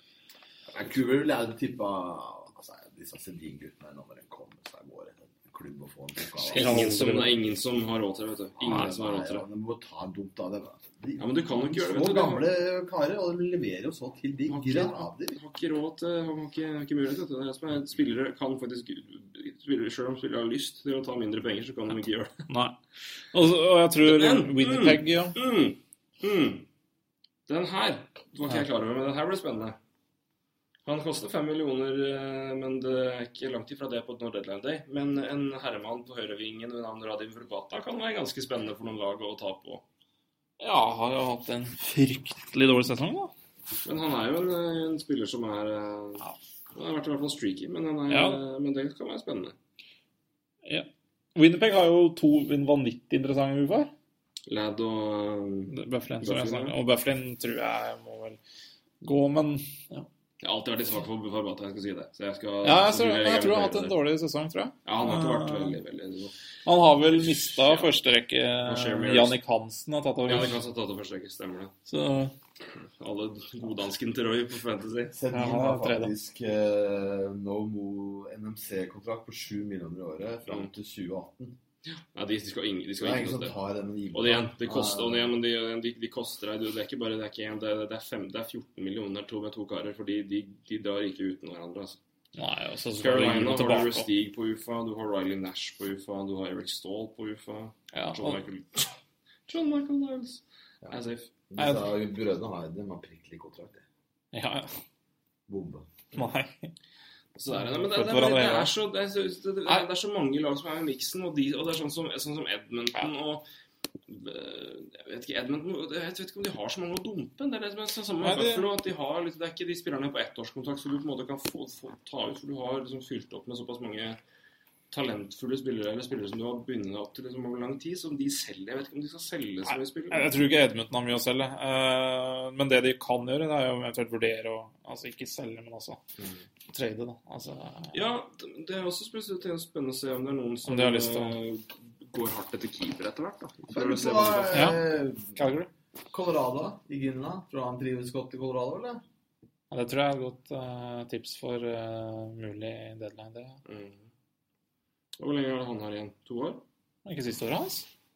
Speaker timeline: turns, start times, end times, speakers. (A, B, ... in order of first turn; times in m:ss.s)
0:00.7-0:06.9 A
0:06.5-0:09.4 B
0:06.5-0:07.3 C
0:08.6-0:15.4 A
0:11.2-0:12.4 B
0:14.5-0:22.4 B
0:22.5-0:22.8 C
0:23.3-0:25.3 C
0:24.0-0:26.6 B
0:27.5-0:29.8 B
0:30.8-0:39.8 B
0:40.6-0:43.3 C
0:43.8-0:49.6 B
0:48.1-0:48.4 C
0:50.6-0:53.9 C
0:54.5-0:56.7 B
0:55.7-0:58.4 C
0:59.0-1:00.1 C
1:00.4-1:04.0 B
1:02.6-1:05.8 C
1:04.8-1:06.3 B
1:06.6-1:10.6 C
1:07.2-1:08.0 B
1:08.6-1:09.4 B
1:10.2-1:11.7 B
1:11.9-1:12.3 C
1:12.8-1:15.1 B
1:15.1-1:21.6 A
1:15.3-1:16.1 C
1:21.8-1:23.5 B
1:23.0-1:25.3 A
1:24.1-1:32.0 B
1:32.3-1:34.0 C
1:33.0-1:38.9 B
1:37.9-1:38.4 C
1:39.5-1:41.3 B
1:41.5-1:43.8 A
1:41.6-1:41.9 C
1:44.3-1:44.7 C
1:45.5-1:45.9 A
1:46.1-1:46.7 C
1:47.3-1:53.4 B
1:47.6-1:48.7 C
1:54.1-2:04.2 B
1:58.2-1:58.7 C
2:04.9-2:10.3 B
2:09.7-2:16.0 C
2:16.2-2:16.4 B
2:16.7-2:18.0 C
2:17.9-2:24.8 B
2:20.6-2:21.3 C
2:23.7-2:25.4 A
2:24.5-2:24.8 C
2:25.3-2:25.7 C
2:26.1-2:29.0 A
2:29.7-2:33.6 C
2:33.6-2:34.0 B
2:35.2-2:36.6 B
2:37.0-2:37.9 C